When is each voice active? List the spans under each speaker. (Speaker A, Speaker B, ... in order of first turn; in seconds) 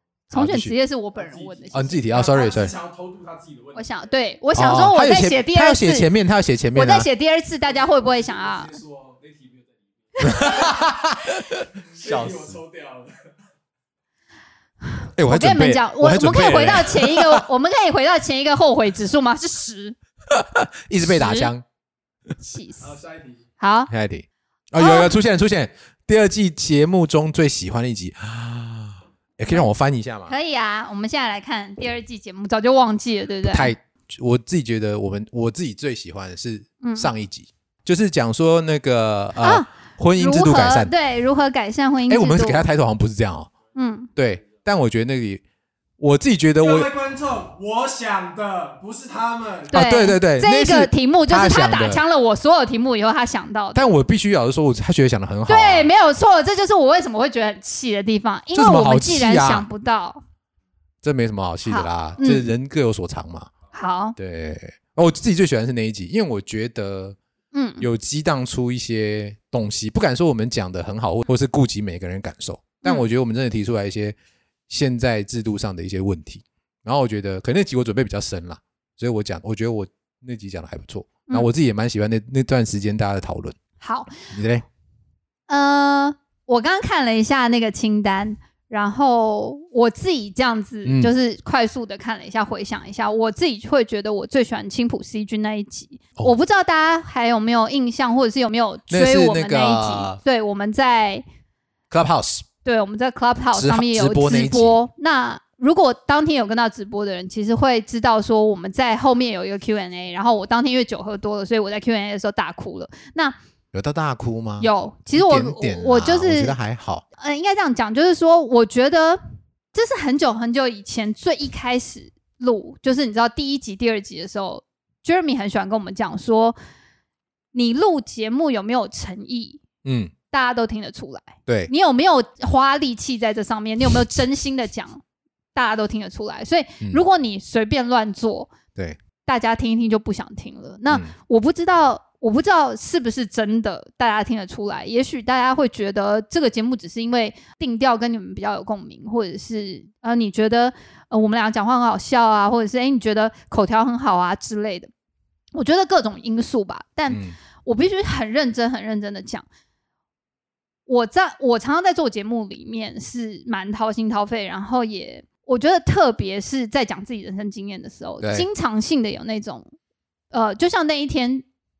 Speaker A: 0.3-0.7, 1.7-2.8, 4.5-7.1, 10.2-12.6, 15.2-17.4, 20.3-21.6, 23.9-30.3, 33.4-40.9, 42.1-43.5, 44.1-45.4, 46.0-46.9, 49.7-52.0, 53.7-55.9, 58.5-59.7, 61.0-63.5, 64.2-67.2, 67.8-74.1, 74.7-83.6, 84.2-84.7, 90.8-91.1, 98.9-100.2, 101.9-102.5, 103.5-104.8, 113.7-117.0, 129.8-130.1, 157.1-157.3, 168.2-168.5
Speaker B: 0.3-2.1, 3.7-6.1, 6.7-8.8, 10.2-10.6, 14.9-19.9, 21.0-21.5, 22.4-22.9, 23.6-23.9, 24.8-25.1, 30.3-33.7, 36.8-37.1, 39.4-42.6, 43.7-44.1, 49.7-53.9, 55.5-60.2, 61.6-62.5, 63.7-64.2, 67.5-67.9, 83.8-84.3, 85.5-101.2, 102.6-113.3, 114.6-116.6, 117.2-119.2, 119.7-126.5, 127.5-129.6, 130.3-135.0, 135.5-138.5, 139.2-154.9, 155.5-159.4, 160.9-169.7, 170.3-171.4
Speaker C: 1.1-4.1, 7.7-10.9, 11.8-13.2, 22.8-23.5, 46.6-49.8